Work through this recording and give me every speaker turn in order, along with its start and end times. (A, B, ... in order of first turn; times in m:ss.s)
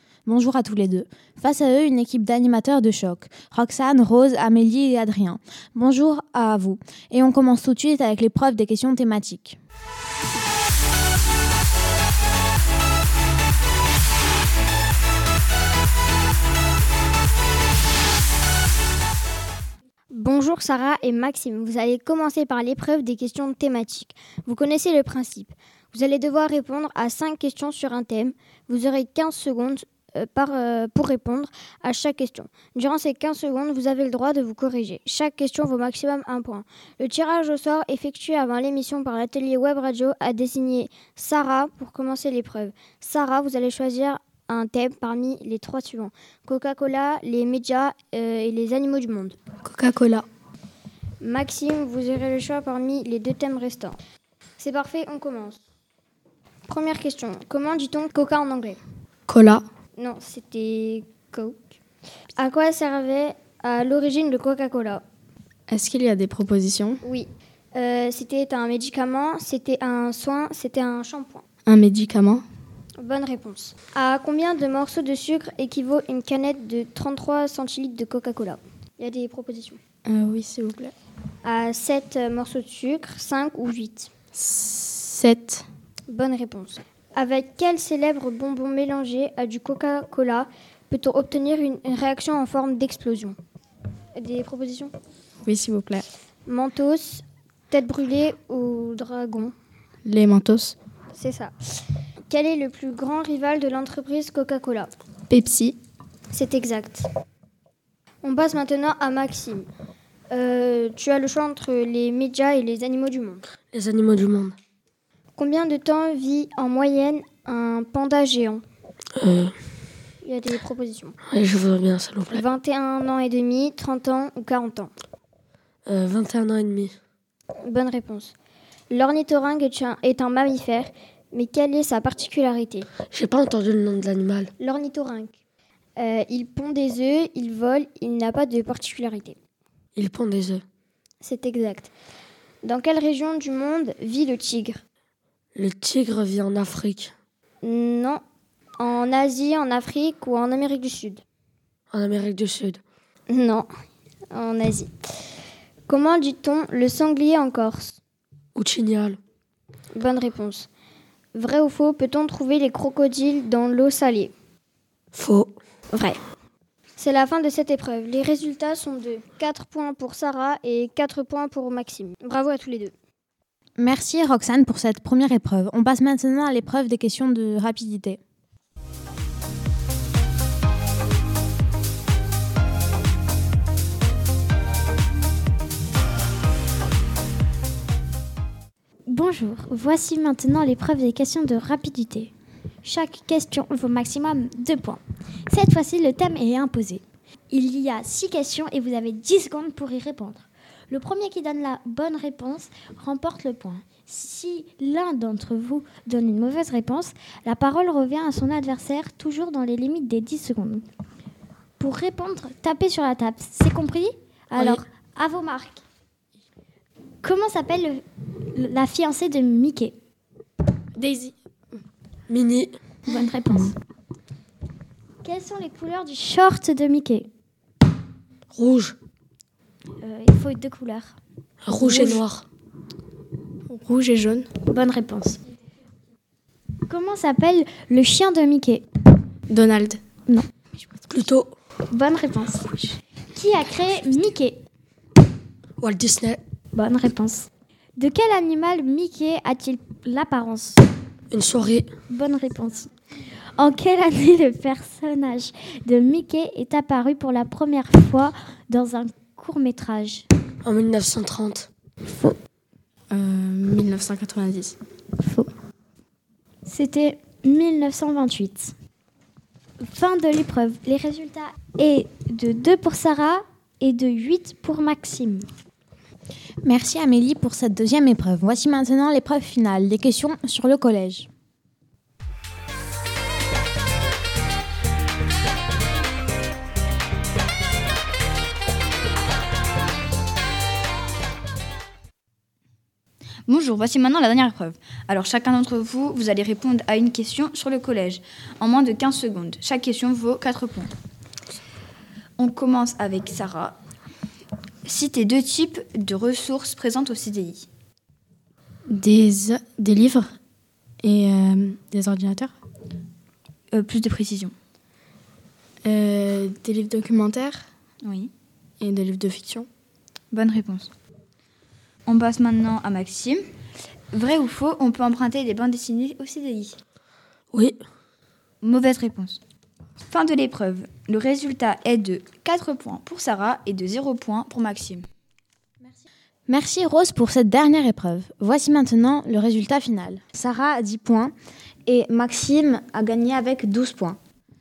0:00.2-0:09.6 A
0:20.1-0:49.4 B
0:49.6-0:50.2 C
0:51.2-0:54.0 B
0:54.6-0:55.6 B
0:56.7-0:58.8 B
0:59.3-0:59.6 C
1:00.0-1:01.7 B
1:02.4-1:05.0 B
1:05.7-1:07.0 C
1:07.0-1:11.4 B
1:11.6-1:12.4 C
1:13.0-1:19.8 B
1:20.0-1:20.9 C
1:21.4-1:24.1 B
1:24.3-1:25.6 C
1:26.1-1:33.4 B
1:34.2-1:34.9 B
1:35.4-1:36.0 C
1:36.5-1:39.5 B
1:40.0-1:40.8 C
1:41.1-1:41.5 B
1:42.3-1:44.9 B
1:45.3-1:45.8 C
1:46.3-1:47.0 B
1:48.2-1:49.6 B
1:50.3-1:53.4 B
1:53.7-1:54.5 D
1:55.4-1:58.6 B
1:59.2-1:59.5 D
2:00.2-2:01.2 B
2:01.3-2:02.4 D
2:02.3-2:04.9 B
2:05.9-2:06.9 D
2:07.6-2:08.3 B
2:08.9-2:12.9 B
2:13.1-2:14.5 D
2:14.6-2:15.3 B
2:16.0-2:19.4 B
2:20.0-2:20.6 D
2:21.2-2:21.9 B
2:22.6-2:24.8 B
2:25.6-2:27.1 D
2:27.6-2:28.2 B
2:28.8-2:31.2 B
2:31.9-2:32.8 D
2:33.3-2:33.7 B
2:34.3-2:34.9 B
2:35.9-2:38.0 B
2:38.6-2:39.2 D
2:39.9-2:40.7 B
2:41.3-2:44.3 B
2:45.1-2:45.5 D
2:47.0-2:52.9 B
2:53.8-2:58.2 A
3:09.1-3:12.3 E
3:12.8-3:30.8 E
3:31.8-3:35.8 E
3:37.2-3:39.9 E
3:41.0-3:41.3 C
3:42.3-3:42.7 D
3:43.0-3:43.7 E
3:45.2-3:47.3 E
3:48.5-3:49.0 D
3:50.0-3:51.2 E
3:51.6-3:52.4 D
3:51.7-3:52.2 C
3:53.7-3:54.5 C
3:54.6-3:55.4 E
3:56.9-3:58.8 E
3:59.5-4:00.0 C
4:01.1-4:01.5 D
4:01.9-4:04.6 E
4:05.8-4:06.4 D
4:06.7-4:10.8 E
4:11.3-4:11.9 D
4:12.1-4:12.9 E
4:13.6-4:20.3 E
4:20.6-4:21.7 D
4:22.1-4:22.4 E
4:23.1-4:24.8 C
4:25.2-4:25.5 E
4:26.6-4:28.7 E
4:29.8-4:35.4 E
4:36.6-4:41.3 A
4:53.5-5:00.9 F
5:02.4-5:03.8 F
5:04.8-5:07.6 F
5:08.9-5:10.3 C
5:11.0-5:12.5 C
5:13.7-5:14.5 F
5:15.8-5:17.6 C
5:18.0-5:18.3 F
5:18.8-5:19.7 C
5:20.3-5:20.9 F
5:22.0-5:23.4 F
5:24.1-5:26.8 F
5:27.5-5:27.8 D
5:28.6-5:29.4 F
5:30.1-5:35.0 F
5:36.5-5:41.3 A
5:41.8-5:44.2 A